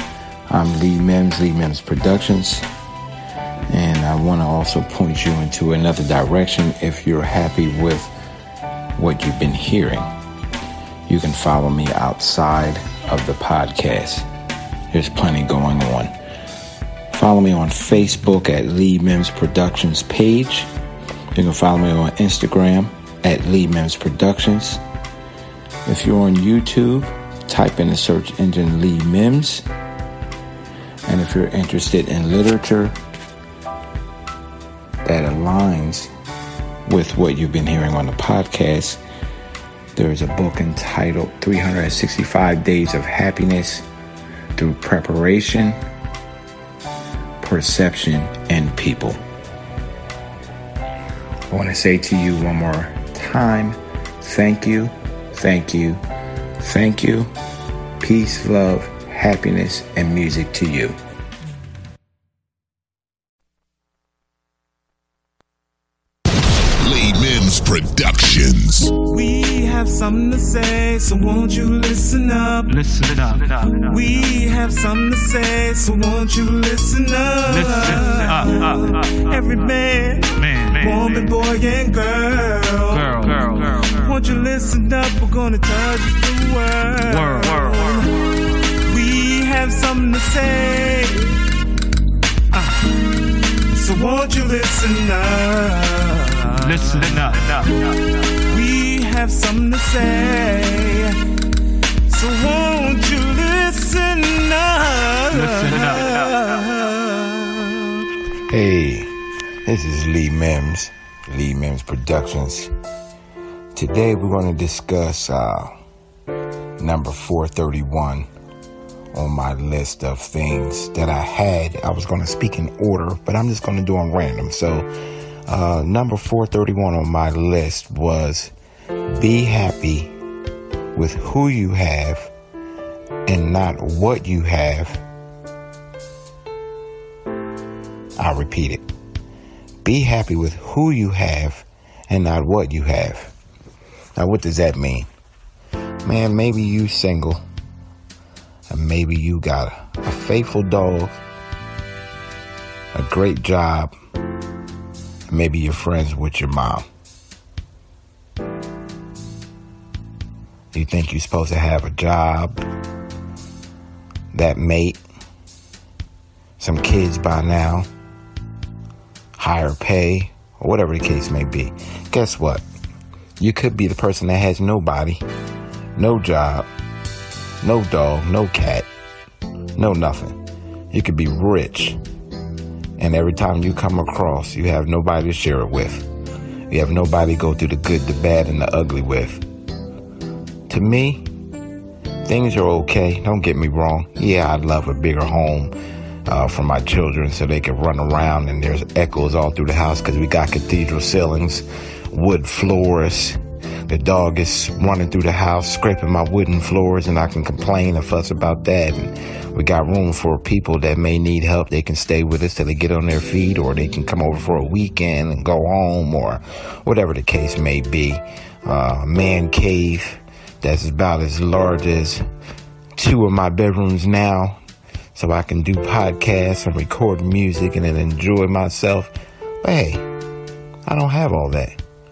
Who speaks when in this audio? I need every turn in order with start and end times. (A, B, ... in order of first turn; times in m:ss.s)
0:00.5-0:02.6 A
0:03.7-0:08.1 A
0:09.0-0:10.1 A
0:11.1-0:14.3 A
0:14.9-0:16.1 A
0:17.1-0:20.7 A
0:21.3-0:24.8 A
0:25.8-0:29.6 A
0:31.1-0:33.0 A
0:35.0-0:36.1 A
0:36.8-0:39.0 A
0:40.0-0:43.8 A
0:44.6-0:45.8 A
0:47.4-0:49.2 A
0:51.5-0:56.0 A
0:56.6-0:57.3 A
0:58.0-1:01.0 A
1:06.8-1:08.9 B
1:09.0-1:12.9 C
1:12.7-1:13.7 D
1:13.4-1:31.5 C
1:17.6-1:18.9 D
1:20.4-1:21.1 D
1:23.0-1:23.9 D
1:27.2-1:27.8 D
1:32.5-1:37.7 C
1:36.6-1:37.8 D
1:38.3-1:41.4 C
1:42.0-1:48.0 C
1:45.5-1:46.2 D
1:48.4-1:49.1 A
1:49.6-1:52.7 A
1:53.7-1:55.7 A
1:56.8-1:58.3 A
1:59.1-2:04.9 A
2:05.5-2:08.5 A
2:09.1-2:10.1 A
2:10.9-2:12.3 A
2:13.3-2:15.0 A
2:18.2-2:18.8 A
2:19.8-2:23.3 A
2:24.2-2:25.1 A
2:26.0-2:27.4 A
2:28.7-2:31.2 A
2:32.9-2:33.9 A
2:35.3-2:36.9 A
2:40.7-2:42.6 A
2:44.3-2:45.0 A
2:46.6-2:47.9 A
2:49.4-2:52.6 A
2:53.4-2:55.2 A
2:56.0-2:56.7 A
2:57.6-2:58.9 A
2:59.8-3:00.4 A
3:00.9-3:02.0 A
3:03.0-3:06.1 A
3:06.7-3:09.4 A
3:10.7-3:11.2 A
3:12.2-3:15.7 A
3:16.2-3:42.2 A
3:43.0-3:44.6 A
3:45.1-3:50.0 A
3:50.9-3:51.8 A